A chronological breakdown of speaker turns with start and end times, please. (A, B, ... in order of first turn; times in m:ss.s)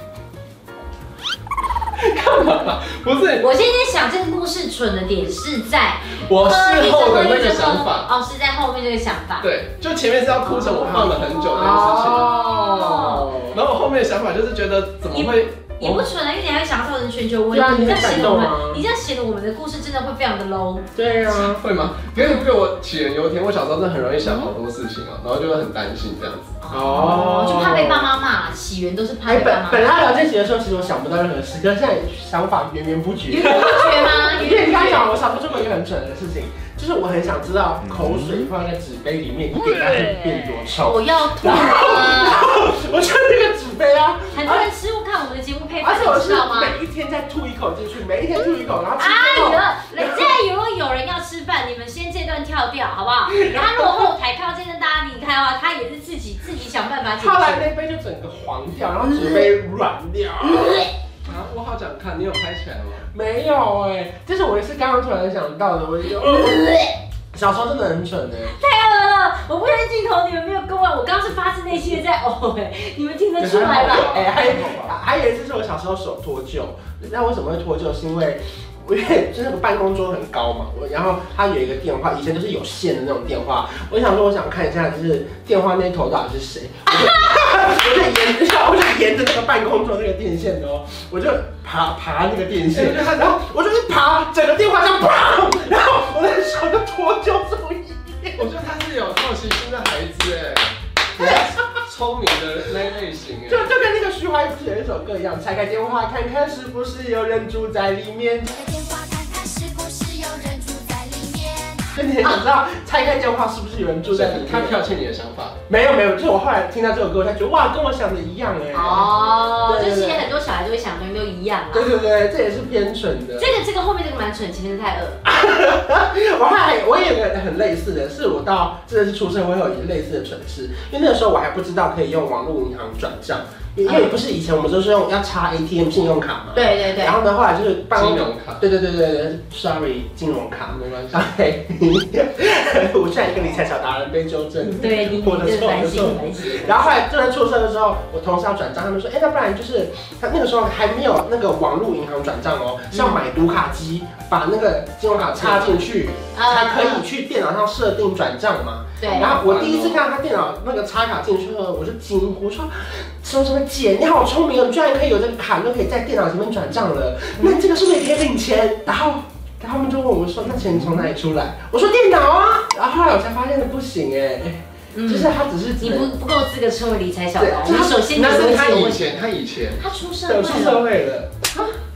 0:02.0-0:03.4 A
0:03.4-0:09.5 B
0:06.2-0:08.1 A
0:09.4-0:12.3 A
0:10.4-0:13.3 B
0:10.9-0:13.6 C
0:13.5-0:16.1 A
0:15.1-0:20.9 B
0:17.5-0:18.8 C
0:20.9-0:21.6 C
0:21.2-0:26.5 A
0:24.2-0:24.5 B
0:26.6-0:29.9 B
0:26.7-0:28.1 C
0:29.2-0:44.7 C
0:33.3-0:35.1 B
0:40.8-0:42.4 B
0:44.3-0:46.8 B
0:45.8-0:50.3 C
0:49.0-0:57.6 B
0:53.3-0:54.1 C
0:57.2-1:00.9 C
0:59.0-0:59.5 B
1:00.5-1:00.9 B
1:01.2-1:03.0 A
1:03.1-1:06.7 C
1:06.2-1:06.9 B
1:07.3-1:08.5 C
1:08.5-1:14.7 B
1:13.4-1:38.4 C
1:13.4-1:14.4 A
1:32.7-1:33.4 A
1:38.4-1:43.7 A
1:41.2-1:41.4 C
1:43.5-1:48.6 C
1:48.6-1:51.8 D
1:51.9-1:54.8 C
1:54.1-1:55.6 A
1:55.7-2:00.2 C
1:58.7-2:01.9 B
2:01.7-2:03.5 C
2:03.4-2:05.2 B
2:05.2-2:56.1 C
2:13.8-2:14.1 B
2:16.5-2:17.2 B
2:17.9-2:18.6 A
2:20.7-2:21.2 A
2:24.6-2:27.0 B
2:32.9-2:33.2 B
2:35.4-2:35.8 A
2:36.3-2:37.0 B
2:39.0-2:39.4 B
2:39.1-2:40.1 A
2:54.9-2:59.0 B
2:57.4-2:58.0 C
2:58.0-2:59.8 A
2:59.8-3:00.9 B
3:00.3-3:01.5 C